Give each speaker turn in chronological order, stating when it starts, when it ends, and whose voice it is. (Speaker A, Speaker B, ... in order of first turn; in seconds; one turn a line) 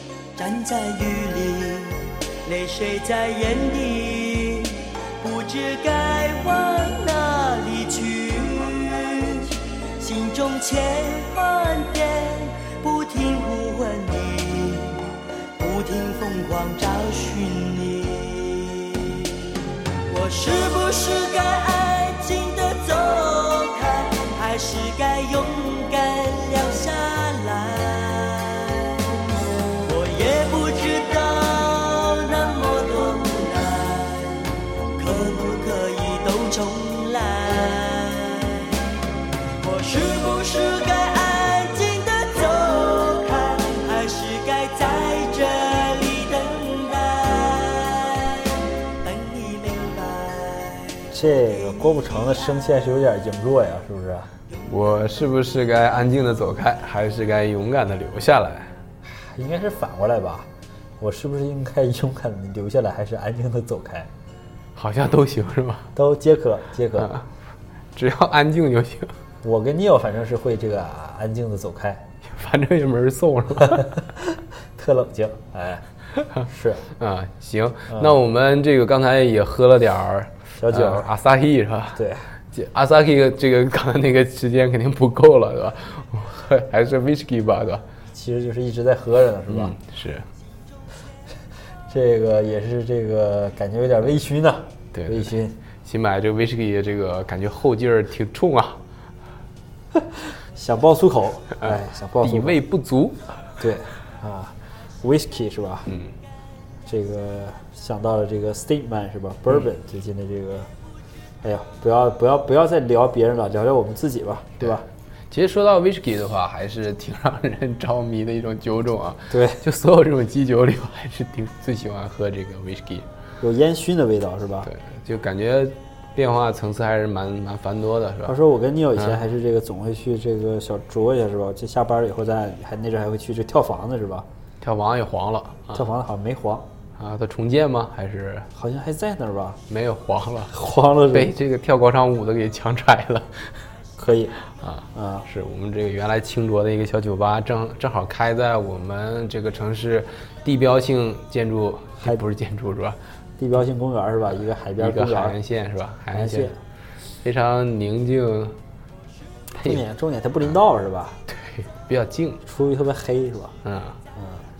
Speaker A: 0.3-19.5
Speaker A: 20.1-29.2
Speaker A: 29.7-38.9
Speaker A: 39.6-51.1
Speaker B: 51.1-54.3
Speaker C: 54.7-58.7
Speaker B: 59.0-60.5
Speaker B: 61.0-64.1
Speaker C: 64.7-65.9
Speaker B: 65.9-67.1
Speaker C: 67.0-67.3
Speaker C: 67.9-69.1
Speaker B: 69.4-72.1
Speaker C: 72.2-73.9
Speaker B: 73.7-75.8
Speaker B: 76.5-76.9
Speaker C: 77.0-87.8
Speaker B: 77.9-78.2
Speaker B: 80.6-81.1
Speaker B: 81.9-82.2
Speaker B: 88.1-89.8
Speaker C: 89.5-90.2
Speaker B: 91.9-95.6
Speaker C: 94.9-95.3
Speaker C: 95.8-98.8
Speaker B: 99.9-102.6
Speaker C: 101.6-103.2
Speaker B: 103.6-105.9
Speaker C: 105.9-106.1
Speaker B: 106.8-110.7
Speaker B: 111.4-114.8
Speaker C: 115.3-123.1
Speaker B: 119.3-119.6
Speaker B: 123.4-124.7
Speaker C: 124.7-128.4
Speaker B: 128.2-134.2
Speaker C: 134.6-135.8
Speaker B: 135.7-136.7
Speaker C: 137.0-138.5
Speaker B: 138.5-139.6
Speaker C: 139.7-140.5
Speaker B: 140.5-141.3
Speaker C: 141.1-143.5
Speaker B: 144.0-144.3
Speaker C: 144.6-153.0
Speaker B: 144.9-145.2
Speaker B: 153.4-155.4
Speaker C: 154.8-156.5
Speaker B: 156.1-156.6
Speaker C: 157.2-158.6
Speaker B: 159.5-161.2
Speaker C: 161.3-162.4
Speaker B: 162.4-163.5
Speaker C: 163.6-164.0
Speaker B: 164.1-164.5